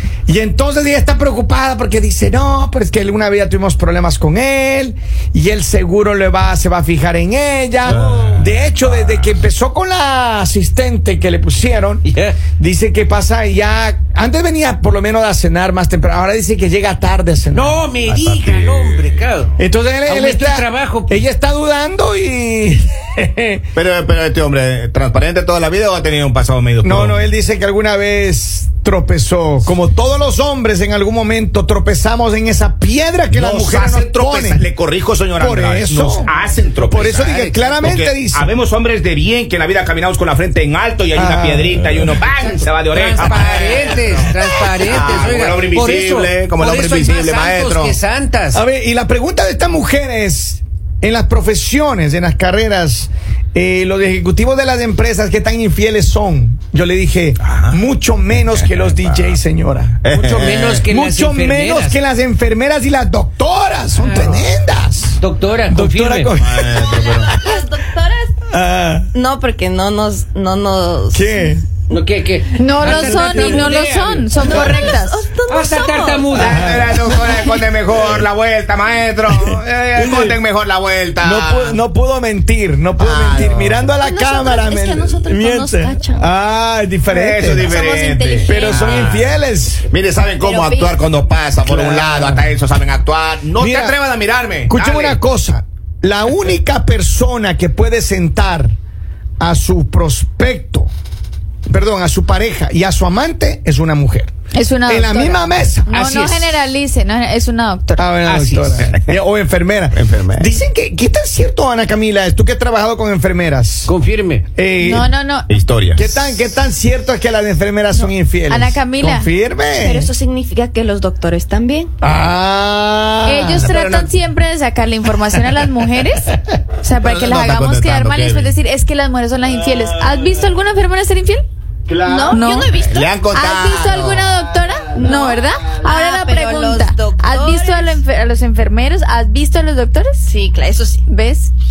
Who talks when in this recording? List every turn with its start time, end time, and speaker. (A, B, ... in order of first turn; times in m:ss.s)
0:00.2-0:17.9 A
0:07.8-0:08.5 B
0:07.9-0:09.3 C
0:12.1-0:12.4 B
0:17.5-0:19.5 B
0:18.0-0:19.5 C
0:19.6-0:23.6 A
0:20.0-0:21.2 B
0:23.7-0:27.2 C
0:26.8-0:34.6 A
0:33.3-0:48.0 C
0:35.4-0:38.5 A
0:36.9-0:37.9 B
0:41.1-0:42.2 A
0:42.3-0:48.6 B
0:48.5-1:00.3 A
0:57.4-0:57.8 C
0:58.4-0:59.4 C
1:00.0-1:00.8 C
1:00.2-1:02.0 B
1:00.8-1:06.8 A
1:03.9-1:04.4 B
1:05.2-1:06.4 B
1:06.4-1:07.4 C
1:06.8-1:08.4 D
1:08.5-1:09.1 A
1:09.1-1:11.4 D
1:11.1-1:11.6 A
1:11.9-1:14.7 B
1:12.6-1:15.2 E
1:12.8-1:13.8 A
1:14.4-1:14.9 A
1:14.4-1:16.4 D
1:15.5-1:16.9 B
1:16.3-1:21.8 C
1:16.4-1:17.3 A
1:19.3-1:20.4 A
1:21.2-1:27.8 A
1:23.0-1:23.9 C
1:24.0-1:26.3 D
1:27.1-1:29.4 C
1:27.6-1:29.0 D
1:28.4-1:29.8 A
1:29.9-1:35.2 C
1:30.4-1:31.1 D
1:31.6-1:32.5 A
1:33.6-1:34.0 A
1:34.7-1:38.7 A
1:39.4-1:40.9 A
1:41.7-1:44.3 A
1:44.5-1:48.0 E
1:44.8-1:45.9 A
1:45.9-1:46.6 B
1:48.0-1:53.9 A
1:48.2-1:48.9 B
1:49.9-1:50.5 C
1:53.8-1:54.4 B
1:54.6-1:55.1 A
1:54.8-1:55.5 E
1:55.5-1:56.4 C
1:56.0-2:00.1 A
1:58.5-1:59.3 E
1:59.7-2:01.9 D
2:02.0-2:04.1 A
2:03.2-2:11.4 E
2:07.0-2:08.5 C
2:11.9-2:14.4 C
2:12.0-2:13.1 D
2:12.3-2:12.7 E
2:13.3-2:20.3 E
2:15.0-2:15.5 A
2:15.0-2:18.0 D
2:20.2-2:21.0 D
2:21.1-2:21.5 E